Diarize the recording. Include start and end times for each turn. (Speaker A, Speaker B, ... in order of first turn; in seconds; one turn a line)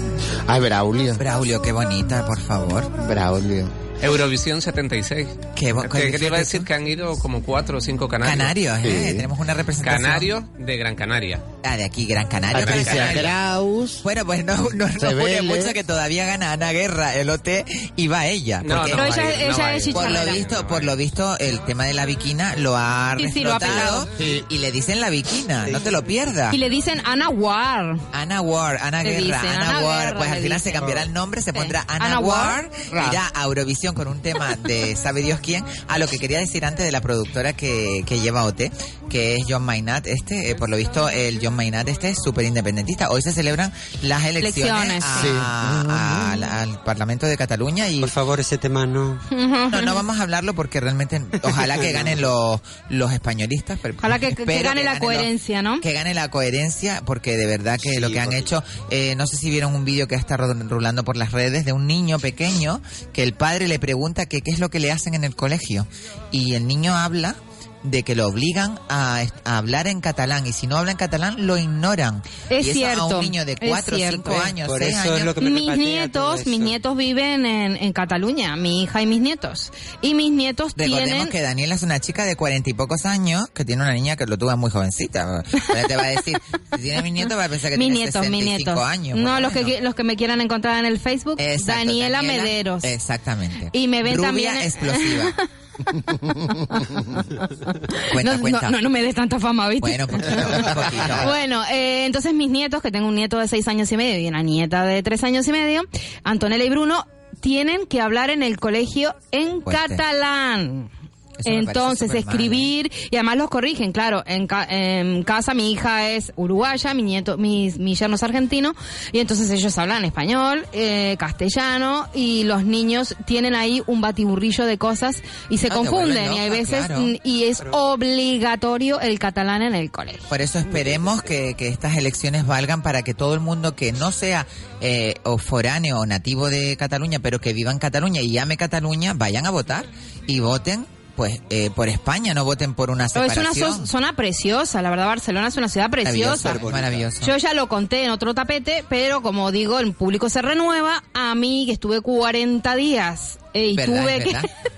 Speaker A: 0.5-1.2
Speaker B: 1.2-2.9
Speaker A: 3.0-3.7
Speaker C: 4.0-8.5
Speaker B: 5.5-6.7
Speaker B: 8.2-10.3
Speaker A: 8.8-9.3
Speaker C: 9.8-11.4
Speaker B: 11.6-13.4
Speaker A: 12.5-14.0
Speaker C: 12.5-13.3
Speaker B: 14.0-19.3
Speaker A: 15.0-15.8
Speaker C: 18.6-20.9
Speaker D: 18.9-20.4
Speaker B: 19.9-26.6
Speaker D: 23.2-24.1
Speaker A: 24.2-24.4
Speaker D: 26.5-28.0
Speaker B: 28.1-48.1
Speaker D: 29.0-32.6
Speaker A: 32.9-33.2
Speaker D: 44.4-45.3
Speaker A: 45.1-46.4
Speaker E: 48.0-49.2
Speaker D: 49.3-50.0
Speaker B: 49.7-75.3
Speaker E: 51.5-52.1
Speaker D: 54.0-55.8
Speaker E: 57.8-58.5
Speaker D: 72.5-74.5
Speaker E: 74.6-76.8
Speaker D: 75.4-81.3
Speaker B: 80.8-89.7
Speaker D: 87.7-92.9
Speaker B: 91.4-95.4
Speaker D: 93.7-95.4
Speaker A: 95.9-97.0
Speaker D: 96.7-110.9
Speaker B: 98.1-98.8
Speaker B: 99.8-101.3
Speaker B: 109.7-110.0
Speaker B: 111.4-112.7
Speaker D: 111.4-130.3
Speaker B: 125.7-127.1
Speaker B: 130.3-143.9
Speaker E: 130.7-131.1
Speaker D: 143.1-146.6
Speaker B: 146.0-147.3
Speaker E: 146.3-147.1
Speaker D: 147.2-154.5
Speaker B: 153.7-154.5